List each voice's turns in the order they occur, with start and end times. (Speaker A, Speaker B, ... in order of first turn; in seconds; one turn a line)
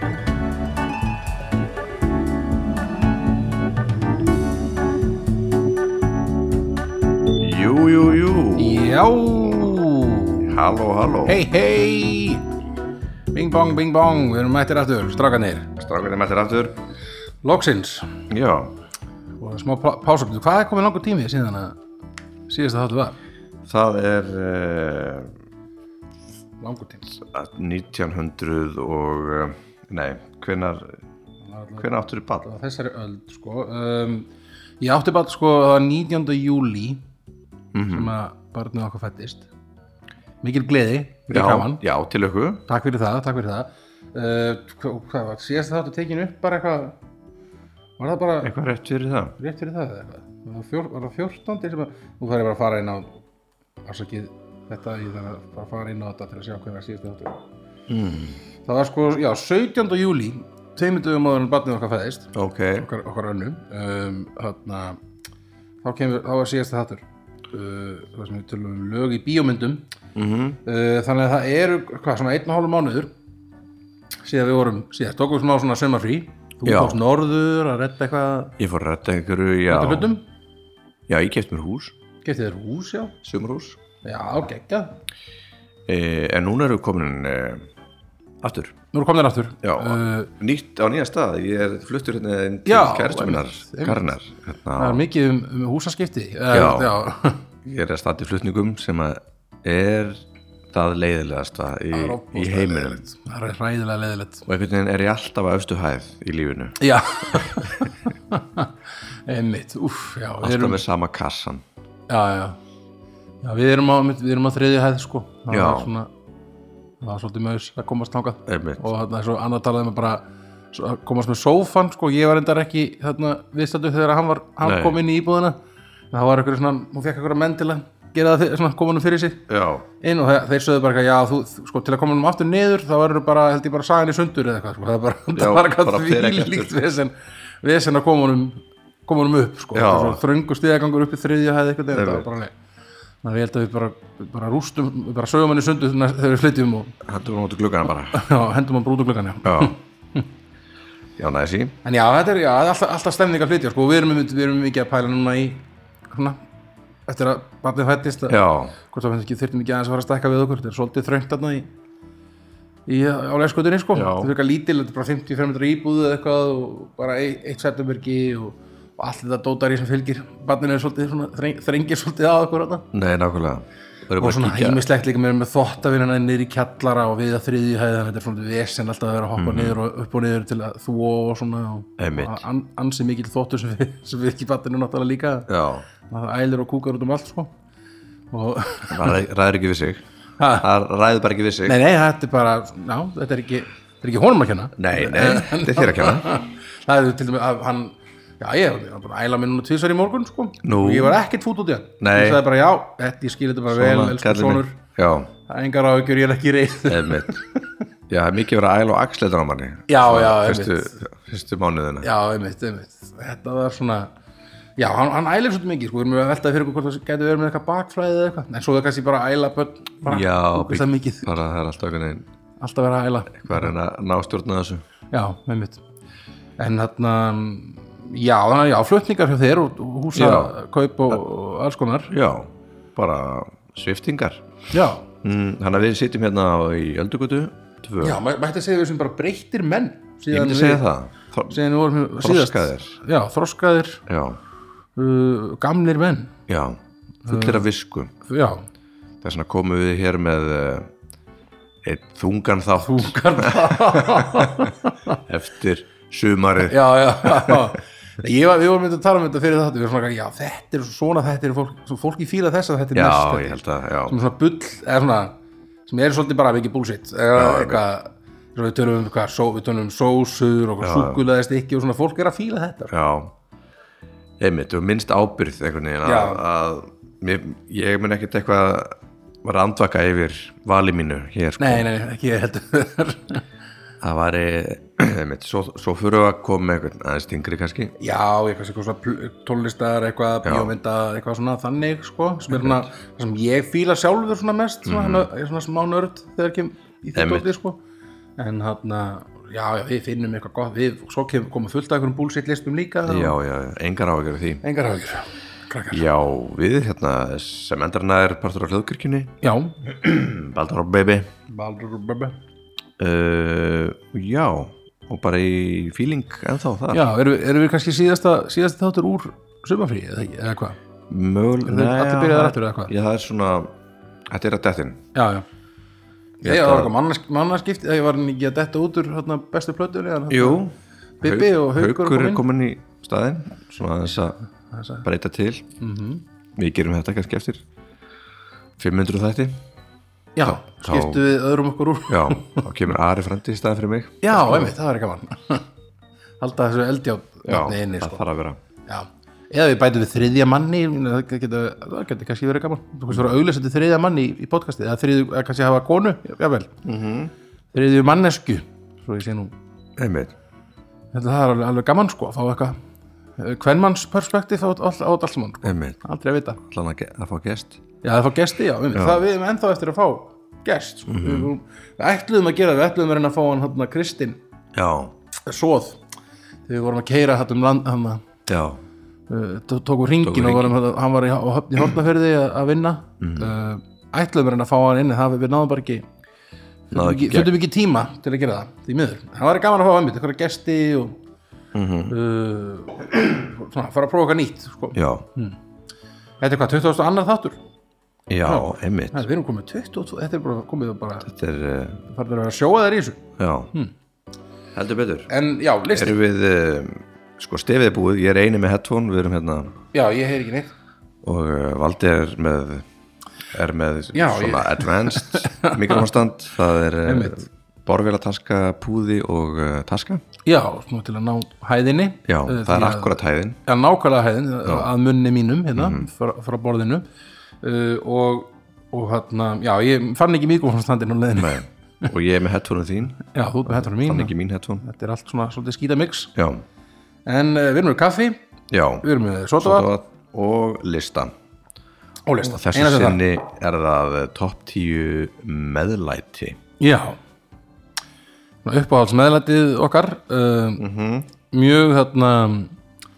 Speaker A: 7.3-8.9
Speaker B: 8.6-10.5
Speaker A: 10.4-11.4
Speaker B: 11.2-12.4
Speaker B: 13.3-15.7
Speaker A: 15.8-16.8
Speaker B: 17.4-18.2
Speaker A: 18.3-18.7
Speaker B: 19.4-21.8
Speaker B: 22.5-23.2
Speaker A: 23.7-25.3
Speaker B: 26.6-27.1
Speaker A: 27.1-30.9
Speaker B: 31.5-31.9
Speaker A: 31.8-32.5
Speaker B: 32.4-34.3
Speaker B: 34.8-37.0
Speaker A: 37.7-38.1
Speaker B: 37.9-39.5
Speaker B: 40.4-41.8
Speaker A: 41.3-42.6
Speaker B: 42.7-47.0
Speaker B: 48.0-48.5
Speaker A: 48.4-49.3
Speaker B: 49.4-53.1
Speaker B: 53.8-57.4
Speaker A: 57.9-58.4
Speaker B: 58.6-65.0
Speaker A: 62.3-62.9
Speaker B: 65.8-69.8
Speaker A: 70.1-70.6
Speaker B: 70.6-73.1
Speaker B: 74.2-78.5
Speaker A: 76.6-77.0
Speaker A: 78.6-80.1
Speaker B: 79.7-80.2
Speaker A: 81.1-81.9
Speaker B: 82.2-83.1
Speaker A: 83.2-83.8
Speaker B: 84.0-85.0
Speaker A: 85.9-87.7
Speaker A: 88.4-88.7
Speaker B: 88.9-90.3
Speaker A: 89.6-95.0
Speaker B: 92.6-94.1
Speaker B: 94.8-97.4
Speaker A: 96.5-96.9
Speaker A: 97.6-103.0
Speaker B: 101.9-104.4
Speaker A: 104.5-106.8
Speaker B: 106.8-108.7
Speaker A: 107.3-107.7
Speaker B: 109.3-110.8
Speaker A: 110.4-111.6
Speaker B: 112.1-112.6
Speaker B: 113.4-116.1
Speaker A: 115.5-115.9
Speaker B: 117.0-125.6
Speaker A: 118.5-118.8
Speaker A: 124.6-125.0
Speaker B: 126.1-129.4
Speaker A: 129.5-129.8
Speaker B: 130.0-142.5
Speaker A: 135.3-136.7
Speaker A: 139.7-140.2
Speaker A: 141.9-142.3
Speaker B: 143.2-147.0
Speaker A: 147.0-148.2
Speaker B: 148.1-150.3
Speaker A: 149.4-149.7
Speaker A: 151.2-151.7
Speaker B: 151.8-156.4
Speaker B: 157.1-161.7
Speaker A: 158.3-158.8
Speaker B: 162.9-172.9
Speaker A: 163.9-164.3
Speaker A: 172.9-174.8
Speaker B: 174.2-185.5
Speaker A: 179.4-179.8
Speaker A: 182.0-182.4
Speaker A: 185.5-185.9
Speaker B: 186.1-187.5
Speaker B: 188.3-189.2
Speaker A: 188.9-190.0
Speaker B: 190.4-190.7
Speaker A: 190.6-191.8
Speaker B: 191.7-204.8
Speaker A: 194.8-196.3
Speaker A: 200.6-201.2
Speaker A: 202.0-202.4
Speaker A: 203.7-205.3
Speaker B: 205.5-207.7
Speaker A: 206.9-207.4
Speaker A: 208.1-212.1
Speaker B: 209.9-211.0
Speaker B: 212.0-214.1
Speaker B: 214.8-221.3
Speaker A: 220.1-222.2
Speaker B: 222.6-223.7
Speaker A: 223.4-224.8
Speaker B: 225.1-225.8
Speaker B: 226.6-232.1
Speaker A: 230.1-230.5
Speaker A: 232.1-234.4
Speaker B: 234.7-235.1
Speaker A: 235.2-238.2
Speaker B: 238.0-240.9
Speaker A: 240.3-241.6
Speaker B: 241.5-244.0
Speaker A: 242.2-243.0
Speaker A: 244.1-244.4
Speaker B: 244.9-246.3
Speaker A: 246.5-248.1
Speaker B: 247.2-247.7
Speaker B: 248.3-248.6
Speaker A: 249.2-250.9
Speaker A: 251.8-254.7
Speaker B: 252.8-255.2
Speaker A: 255.3-257.7
Speaker B: 256.6-265.3
Speaker A: 262.9-264.1
Speaker B: 265.9-272.9
Speaker A: 267.3-267.8
Speaker A: 270.8-271.2
Speaker A: 272.9-273.3
Speaker A: 274.4-281.9
Speaker B: 276.0-276.4
Speaker B: 281.6-283.4
Speaker A: 284.0-287.9
Speaker B: 288.0-297.8
Speaker A: 290.4-290.7
Speaker A: 292.5-292.9
Speaker A: 294.9-295.3
Speaker A: 297.1-297.5
Speaker B: 298.4-303.4
Speaker A: 303.1-304.6
Speaker B: 304.6-306.0
Speaker A: 305.9-309.3
Speaker B: 309.4-309.8
Speaker A: 309.8-311.3
Speaker B: 311.5-312.4
Speaker A: 313.0-317.1
Speaker B: 316.9-320.8
Speaker A: 321.1-323.7
Speaker B: 321.6-322.9
Speaker A: 324.3-325.0
Speaker B: 325.1-325.4
Speaker B: 326.4-330.6
Speaker A: 326.4-326.9
Speaker A: 330.3-334.4
Speaker B: 331.2-332.4
Speaker B: 334.7-335.1
Speaker A: 335.0-335.6
Speaker B: 335.8-336.2
Speaker A: 336.6-337.6
Speaker A: 338.8-339.6
Speaker B: 340.4-342.6
Speaker A: 340.4-341.2
Speaker A: 342.1-344.7
Speaker B: 344.2-345.6
Speaker B: 346.4-348.2
Speaker A: 347.4-348.6
Speaker B: 348.9-356.7
Speaker A: 356.8-357.3
Speaker B: 357.7-359.5
Speaker A: 360.0-360.3
Speaker B: 361.1-362.8
Speaker B: 363.4-366.6
Speaker A: 365.6-366.0
Speaker A: 366.6-367.8
Speaker B: 368.0-374.4
Speaker A: 368.9-369.2
Speaker A: 371.1-371.5
Speaker A: 374.7-375.1
Speaker B: 375.4-376.0
Speaker B: 376.7-378.2
Speaker A: 378.5-378.8
Speaker B: 379.3-386.0
Speaker A: 380.2-380.7
Speaker A: 383.2-383.5
Speaker B: 386.9-391.2
Speaker A: 386.9-387.5
Speaker A: 391.7-392.1
Speaker B: 392.1-395.6
Speaker A: 394.9-395.2
Speaker B: 396.4-397.6
Speaker A: 398.3-399.2
Speaker B: 398.4-401.3
Speaker A: 401.2-402.0
Speaker B: 402.1-403.9
Speaker A: 403.4-403.7
Speaker A: 404.7-405.3
Speaker B: 405.3-406.2
Speaker A: 405.9-409.7
Speaker B: 409.9-410.7
Speaker A: 411.2-412.8
Speaker A: 413.5-420.2
Speaker B: 414.1-416.1
Speaker B: 417.0-417.4
Speaker B: 420.4-427.0
Speaker A: 422.3-423.6
Speaker A: 425.7-426.1
Speaker B: 427.6-431.6
Speaker A: 431.4-433.2
Speaker B: 433.2-436.3
Speaker A: 433.8-434.8
Speaker A: 436.3-436.6
Speaker B: 437.2-438.4
Speaker A: 438.7-439.0
Speaker B: 439.0-439.9
Speaker A: 439.6-441.3
Speaker B: 442.2-443.2
Speaker A: 442.5-446.6
Speaker B: 446.8-447.2
Speaker B: 448.6-450.8
Speaker A: 450.8-451.3
Speaker B: 451.5-452.8